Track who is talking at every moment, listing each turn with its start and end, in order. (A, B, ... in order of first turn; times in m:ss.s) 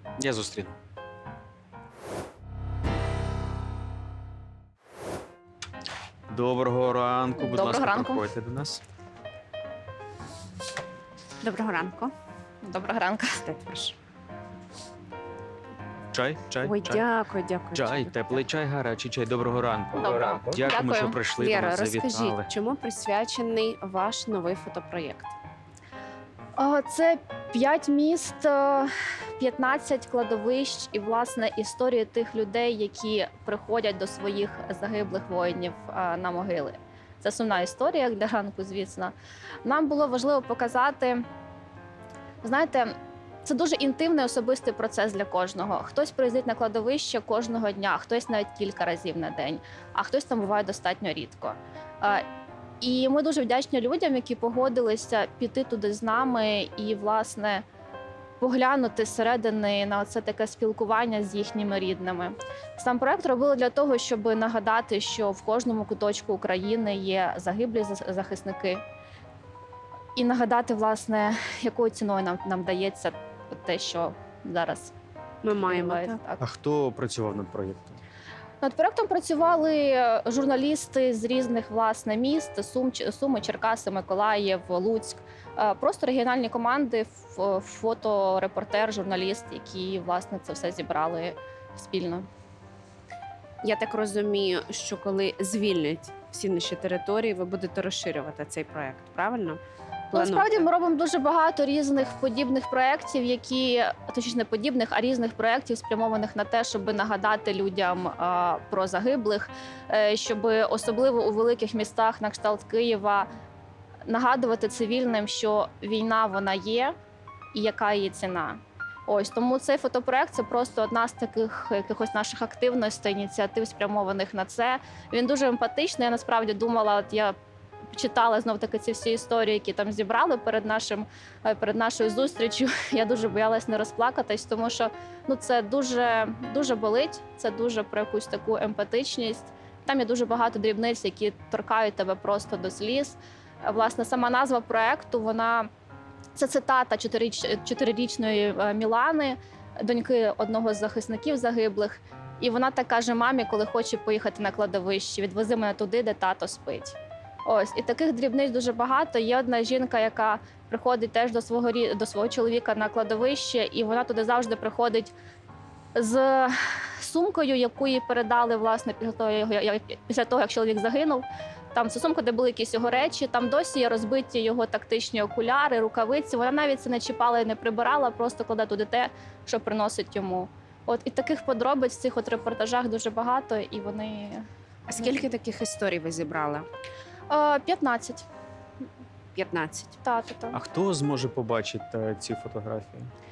0:00.2-0:00.8 A
0:06.3-0:08.8 A
0:07.4-0:08.3 B
0:11.4-0:12.1 C
0:12.6-0:13.4 B
0:13.4-0:14.0 C
0:16.1-0:17.0 A
0:16.6-0:18.4 C
0:17.7-0:22.5 A
0:20.0-0:21.2 B
0:20.0-0:20.5 C
0:21.4-0:25.3 C
0:26.6-0:41.2 B
0:42.4-0:52.2 B
0:52.8-0:57.6 B
0:58.4-1:08.8 B
1:10.2-1:14.9 B
1:15.4-1:16.2 C
1:15.6-1:16.4 B
1:16.4-1:18.0 A
1:18.6-1:32.3 B
1:33.6-1:39.6 C
1:40.1-1:40.5 C
1:40.1-1:53.3 B
1:54.1-1:57.0 B
1:57.5-2:07.4 B
2:07.9-2:25.7 B
2:26.4-2:45.1 B
2:46.0-3:04.4 B
3:04.9-3:06.7 C
3:05.0-3:05.3 B
3:07.3-3:08.2 B
3:09.4-3:09.9 C
3:10.0-3:10.6 B
3:10.5-3:13.1 A